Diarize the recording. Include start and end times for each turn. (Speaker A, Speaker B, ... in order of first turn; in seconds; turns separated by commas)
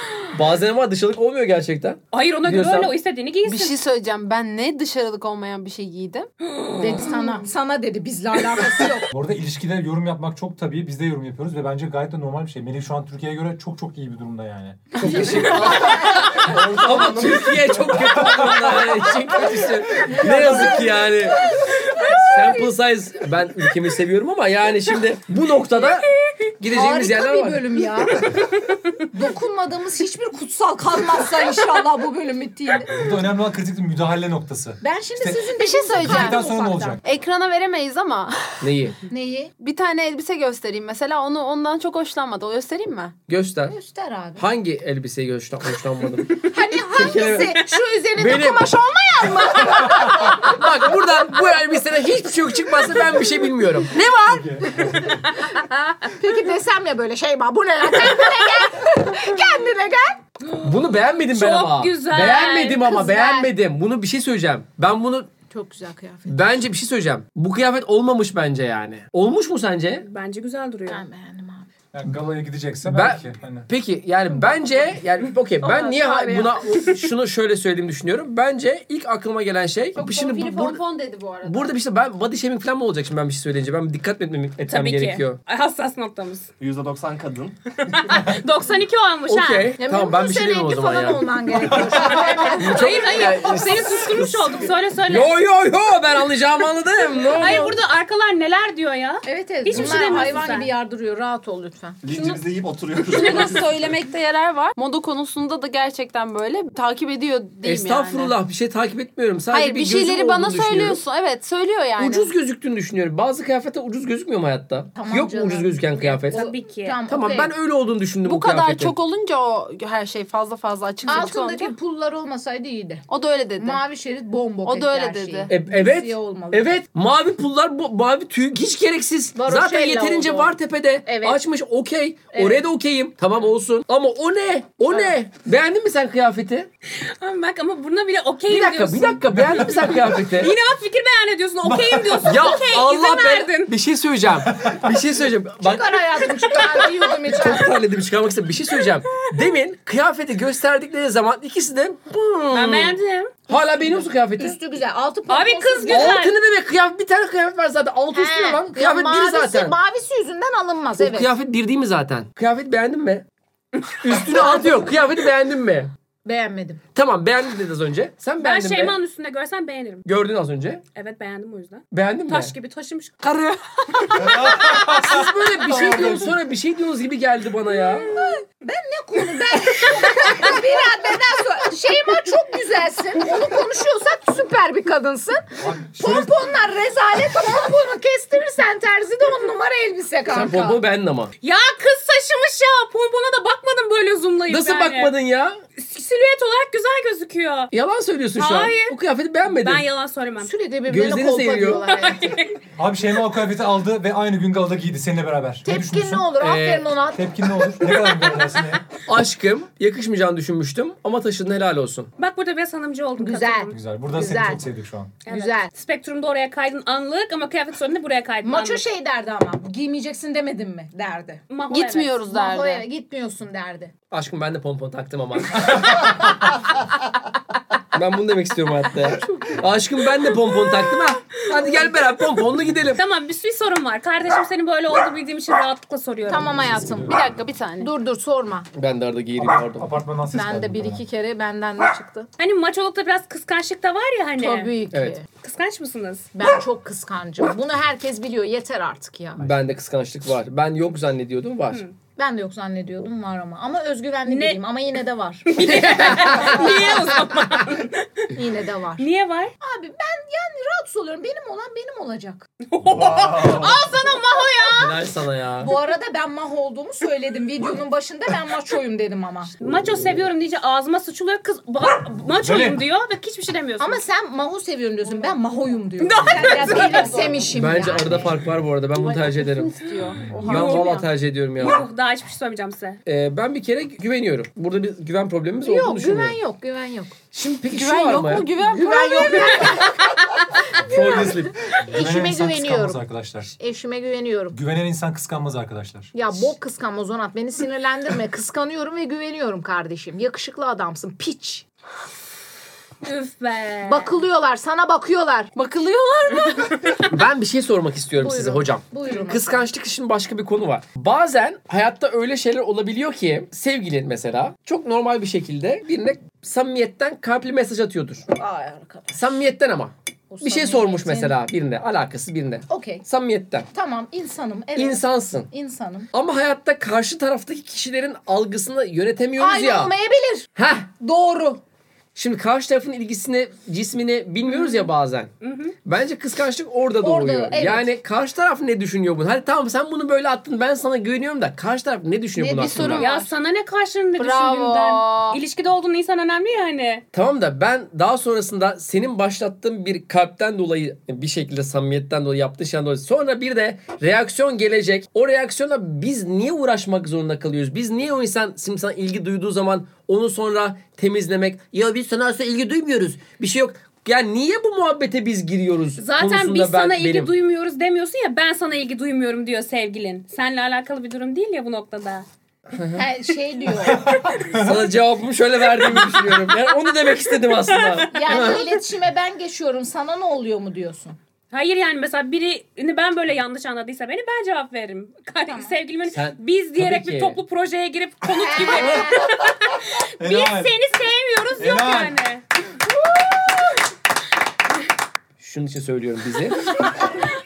Speaker A: 0.3-2.9, Speaker B: 2.1-3.8, Speaker C: 3.4-6.3, Speaker B: 6.5-7.2, Speaker D: 6.8-9.1, Speaker E: 9.1-15.8, Speaker A: 15.0-21.5, Speaker F: 16.0-18.2, Speaker E: 18.2-18.7, Speaker D: 20.1-22.7, Speaker E: 20.3-20.7, Speaker A: 22.1-27.8, Speaker D: 26.7-28.4, Speaker B: 28.3-28.7, Speaker D: 29.1-32.9, Speaker E: 32.9-37.0, Speaker D: 34.8-37.0, Speaker C: 35.5-36.4, Speaker C: 37.0-38.6, Speaker A: 38.6-39.0, Speaker D: 39.1-39.5, Speaker C: 39.6-43.1, Speaker A: 43.3-43.8, Speaker D: 43.7-44.4, Speaker A: 44.4-47.6, Speaker D: 46.5-50.9, Speaker A: 48.2-48.7, Speaker A: 49.9-53.9, Speaker C: 53.9-54.9, Speaker E: 54.2-55.2, Speaker D: 55.0-60.2, Speaker A: 60.6-65.3, Speaker B: 61.3-62.9, Speaker D: 62.6-63.5, Speaker D: 65.5-66.3, Speaker A: 66.2-70.0, Speaker B: 70.0-71.0, Speaker D: 70.9-71.7, Speaker E: 71.9-73.7, Speaker A: 72.8-80.8, Speaker C: 75.6-76.6, Speaker C: 80.0-81.7, Speaker A: 81.4-85.4, Speaker B: 84.7-86.5, Speaker F: 86.6-87.6, Speaker B: 87.8-89.7, Speaker A: 89.3-91.3, Speaker D: 89.8-93.5, Speaker E: 91.8-92.1, Speaker B: 92.0-95.3, Speaker A: 92.4-97.8, Speaker B: 97.3-100.7, Speaker D: 99.2-102.0, Speaker F: 102.0-103.8, Speaker C: 102.1-102.4, Speaker C: 103.1-108.3, Speaker A: 107.6-111.0, Speaker C: 109.5-112.3, Speaker A: 112.0-116.4, Speaker D: 115.0-117.5, Speaker B: 116.1-117.0, Speaker A: 117.1-119.0, Speaker C: 118.2-121.7, Speaker D: 121.0-123.0, Speaker C: 123.1-123.8, Speaker D: 123.6-126.8, Speaker C: 124.6-125.5, Speaker A: 125.5-136.7, Speaker D: 129.3-131.4, Speaker D: 132.3-132.6, Speaker B: 136.9-143.7, Speaker A: 138.5-140.5, Speaker E: 139.3-139.7, Speaker E: 141.6-142.2, Speaker A: 142.2-146.0, Speaker E: 144.4-144.9, Speaker D: 145.6-147.7, Speaker B: 146.5-146.9, Speaker A: 147.3-154.6, Speaker B: 152.5-153.3, Speaker D: 153.5-156.2, Speaker B: 155.3-156.3, Speaker A: 155.9-159.8, Speaker D: 158.1-161.3, Speaker A: 161.0-163.2, Speaker A: 163.9-165.9, Speaker D: 164.3-164.9, Speaker D: 166.2-166.8, Speaker A: 166.9-169.0, Speaker B: 168.4-170.0, Speaker A: 170.0-170.8, Speaker B: 170.9-173.2, Speaker A: 171.9-172.5, Speaker B: 174.0-174.8, Speaker E: 174.1-176.3, Speaker A: 174.3-178.1, Speaker D: 178.0-190.8, Speaker B: 179.9-180.5, Speaker E: 185.6-186.3, Speaker A: 190.3-191.3, Speaker B: 191.4-195.1, Speaker A: 194.5-195.6, Speaker B: 195.8-197.7, Speaker A: 197.7-199.8, Speaker B: 198.4-200.5, Speaker D: 200.4-202.3, Speaker A: 200.9-201.8, Speaker B: 201.8-202.6, Speaker E: 202.8-206.3, Speaker D: 205.6-207.8, Speaker A: 206.4-206.9, Speaker E: 207.1-208.8, Speaker A: 209.1-212.1, Speaker B: 212.2-213.7, Speaker D: 213.2-214.6, Speaker E: 213.7-215.1, Speaker B: 215.2-218.8, Speaker D: 215.3-215.7, Speaker D: 218.4-221.4, Speaker B: 221.5-222.2, Speaker C: 221.7-222.8, Speaker D: 222.3-223.9, Speaker A: 224.1-226.1, Speaker A: 227.9-233.0, Speaker B: 233.0-236.7, Speaker D: 236.3-237.2, Speaker E: 236.5-237.1, Speaker C: 237.0-237.9, Speaker D: 237.8-238.7, Speaker A: 238.7-239.9, Speaker E: 239.4-241.0, Speaker D: 240.3-242.3, Speaker B: 242.4-244.7, Speaker D: 244.4-245.2, Speaker A: 244.9-245.2, Speaker B: 245.4-246.3, Speaker D: 246.3-249.4, Speaker A: 249.4-251.8, Speaker D: 252.2-257.2, Speaker B: 254.2-254.6, Speaker B: 255.5-258.3, Speaker A: 255.6-256.9, Speaker D: 258.3-259.1, Speaker B: 259.0-259.5, Speaker D: 259.6-262.5, Speaker B: 262.7-264.9, Speaker F: 262.9-263.8, Speaker D: 264.4-264.7, Speaker A: 264.7-265.7, Speaker D: 265.6-269.5, Speaker B: 269.6-274.0, Speaker E: 272.4-272.8, Speaker D: 273.8-278.4, Speaker B: 276.0-277.3, Speaker C: 276.6-277.4, Speaker A: 277.5-279.7, Speaker C: 278.9-281.1, Speaker A: 280.4-281.9, Speaker B: 280.4-281.0, Speaker B: 281.6-283.0, Speaker A: 283.1-286.4, Speaker D: 285.6-287.1, Speaker A: 287.3-288.6, Speaker C: 287.7-289.8, Speaker D: 288.6-293.0, Speaker A: 290.8-291.6, Speaker E: 291.8-293.5, Speaker D: 293.5-294.6, Speaker E: 294.5-296.1, Speaker D: 296.1-301.6, Speaker B: 303.0-304.2, Speaker D: 303.9-305.5, Speaker C: 305.5-307.0, Speaker A: 307.1-318.3, Speaker D: 308.2-309.6, Speaker D: 318.3-319.3, Speaker A: 319.1-323.7, Speaker D: 320.3-321.4, Speaker D: 322.7-323.0, Speaker D: 323.7-326.1, Speaker A: 324.8-325.5, Speaker A: 326.1-329.9, Speaker D: 329.4-331.6, Speaker A: 330.6-330.9, Speaker A: 332.1-335.3, Speaker B: 334.5-334.8, Speaker B: 335.4-335.8, Speaker A: 335.8-343.0, Speaker D: 337.0-337.9, Speaker C: 342.4-343.3, Speaker D: 342.6-343.0, Speaker B: 343.0-347.0, Speaker C: 344.2-345.4, Speaker A: 347.1-367.3, Speaker B: 366.0-372.2, Speaker A: 372.7-373.0, Speaker D: 372.9-374.1, Speaker E: 373.9-374.8, Speaker A: 374.5-378.6, Speaker B: 375.9-376.4, Speaker B: 377.5-378.7, Speaker D: 378.1-381.2, Speaker B: 381.5-392.4, Speaker D: 385.5-385.7, Speaker A: 386.1-387.4, Speaker D: 388.3-389.4, Speaker E: 390.2-390.7, Speaker E: 391.6-392.2, Speaker A: 395.4-396.8